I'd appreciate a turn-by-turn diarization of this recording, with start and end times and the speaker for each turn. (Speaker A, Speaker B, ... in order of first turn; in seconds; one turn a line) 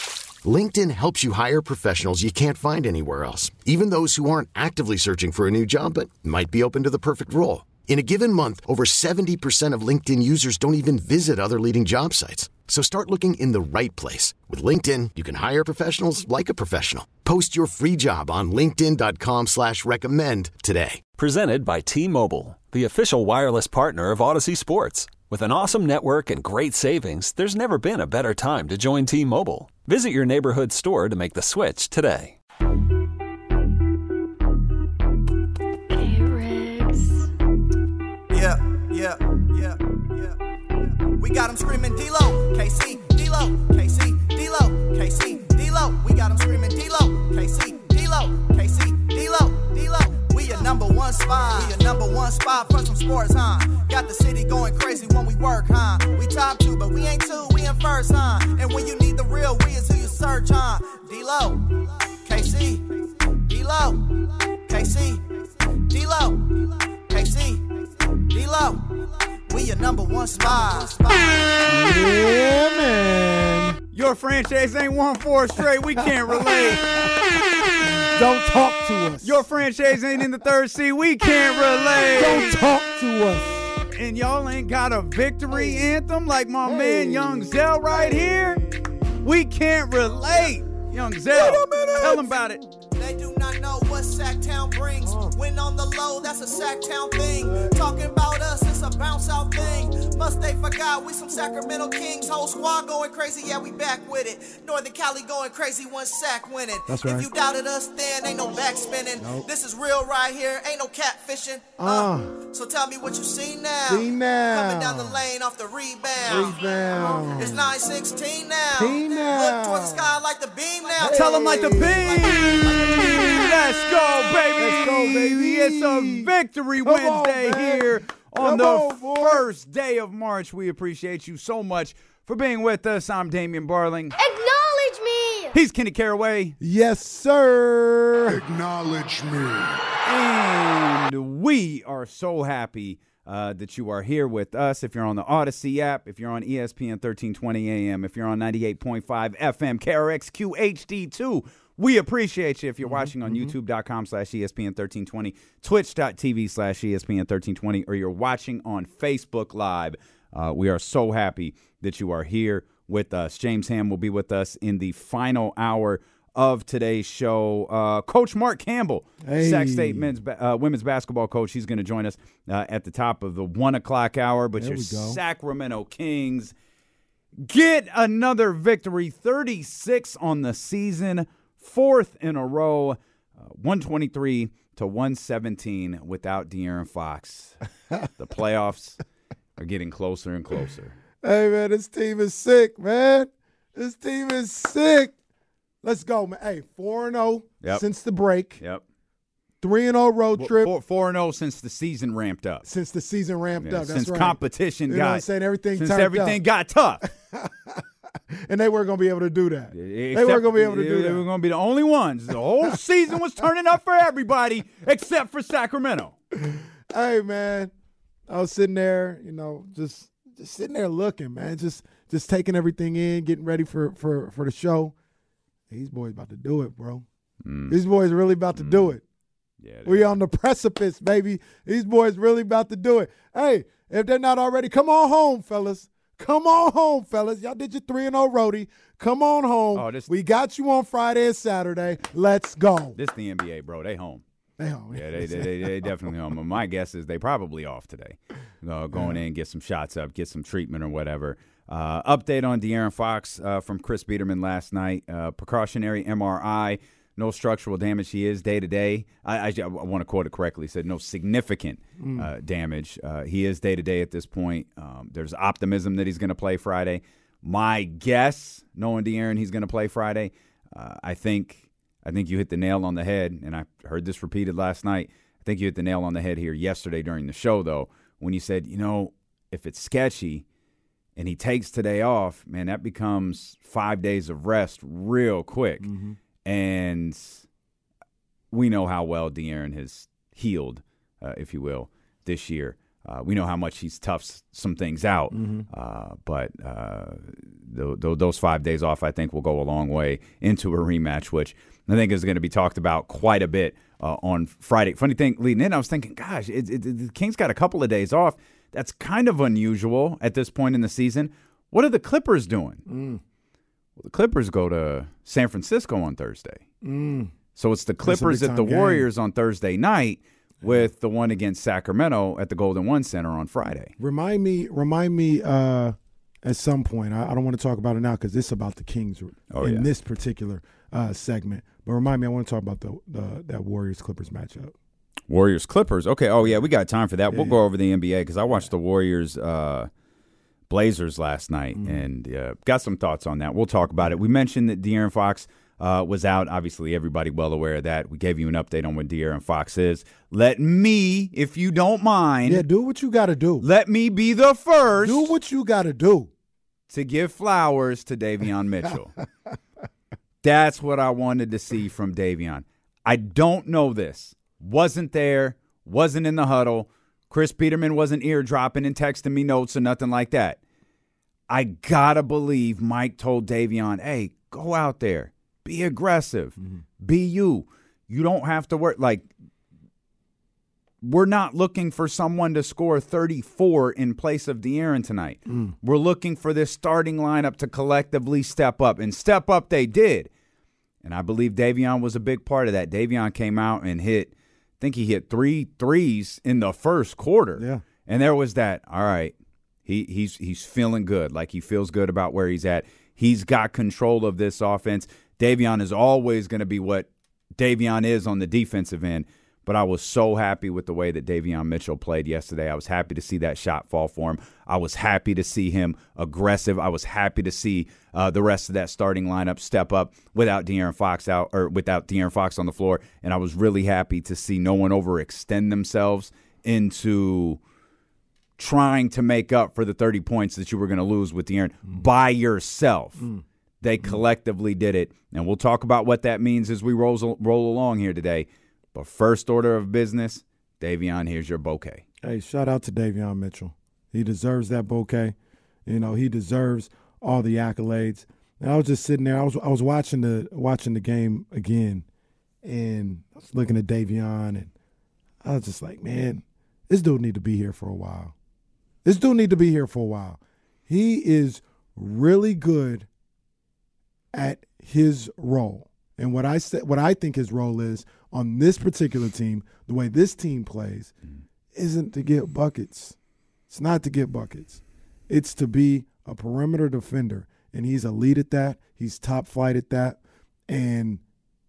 Speaker A: 0.4-21.0
Speaker B: 21.2-32.4
Speaker C: 36.0-37.2
Speaker D: 38.3-40.3
Speaker D: 41.1-71.7
Speaker E: 71.7-73.8
Speaker F: 73.9-76.8
Speaker E: 76.0-77.1
Speaker E: 78.0-79.5
Speaker F: 79.2-82.6
Speaker E: 82.0-83.8
Speaker F: 83.9-88.6
Speaker E: 85.5-85.9
Speaker E: 86.6-89.2
Speaker F: 89.2-92.6
Speaker E: 91.3-92.1
Speaker D: 91.5-92.2
Speaker D: 92.9-123.6
Speaker E: 95.0-95.3
Speaker E: 106.9-107.3
Speaker E: 109.2-109.5
Speaker E: 111.8-112.3
Speaker E: 113.9-115.2
Speaker E: 116.2-117.7
Speaker E: 118.7-120.1
Speaker E: 120.9-122.0
Speaker F: 121.1-134.1
Speaker E: 124.5-129.4
Speaker C: 134.2-135.5
Speaker F: 135.5-136.6
Speaker E: 136.6-138.5
Speaker F: 140.0-176.5
Speaker E: 152.8-153.5
Speaker E: 169.2-170.1
Speaker E: 174.6-175.2
Speaker F: 177.4-187.6
Speaker F: 188.2-189.0
Speaker F: 189.6-190.9
Speaker E: 191.2-195.1
Speaker E: 195.8-198.6
Speaker E: 199.6-200.7
Speaker F: 200.4-202.6
Speaker E: 202.6-206.4
Speaker F: 203.6-207.0
Speaker E: 207.2-211.2
Speaker F: 209.7-216.2
Speaker E: 216.3-217.7
Speaker E: 218.3-224.9
Speaker E: 225.7-227.1
Speaker F: 227.4-227.7
Speaker E: 227.7-229.0
Speaker F: 228.5-228.9
Speaker F: 229.6-230.2
Speaker E: 229.8-243.0
Speaker F: 239.7-240.1
Speaker F: 242.9-244.2
Speaker E: 244.6-245.9
Speaker F: 244.9-280.4
Speaker E: 248.9-249.2
Speaker E: 262.0-262.3
Speaker F: 281.1-285.9
Speaker E: 285.8-286.2
Speaker F: 286.4-287.4
Speaker F: 288.5-312.8
Speaker E: 295.3-295.7
Speaker E: 312.9-313.2
Speaker F: 314.0-316.6
Speaker E: 316.8-317.3
Speaker F: 317.6-323.9
Speaker E: 318.0-319.1
Speaker E: 324.0-334.7
Speaker F: 329.5-329.9
Speaker F: 335.3-339.9
Speaker E: 337.3-337.6
Speaker F: 340.7-352.6
Speaker E: 341.8-342.0
Speaker E: 352.4-353.7
Speaker F: 353.6-355.3
Speaker E: 355.0-356.3
Speaker F: 356.9-359.2
Speaker F: 360.4-370.6
Speaker F: 371.5-379.3
Speaker F: 381.0-390.3
Speaker E: 385.5-385.7
Speaker F: 391.0-399.3
Speaker E: 397.6-397.8
Speaker F: 399.9-427.6
Speaker F: 428.6-433.2
Speaker E: 433.2-433.4
Speaker F: 433.8-442.0
Speaker E: 442.2-445.3
Speaker E: 445.9-452.1
Speaker E: 452.6-454.7
Speaker E: 455.4-458.3
Speaker E: 459.0-463.1
Speaker E: 464.3-471.1
Speaker E: 471.7-473.1
Speaker E: 473.7-481.2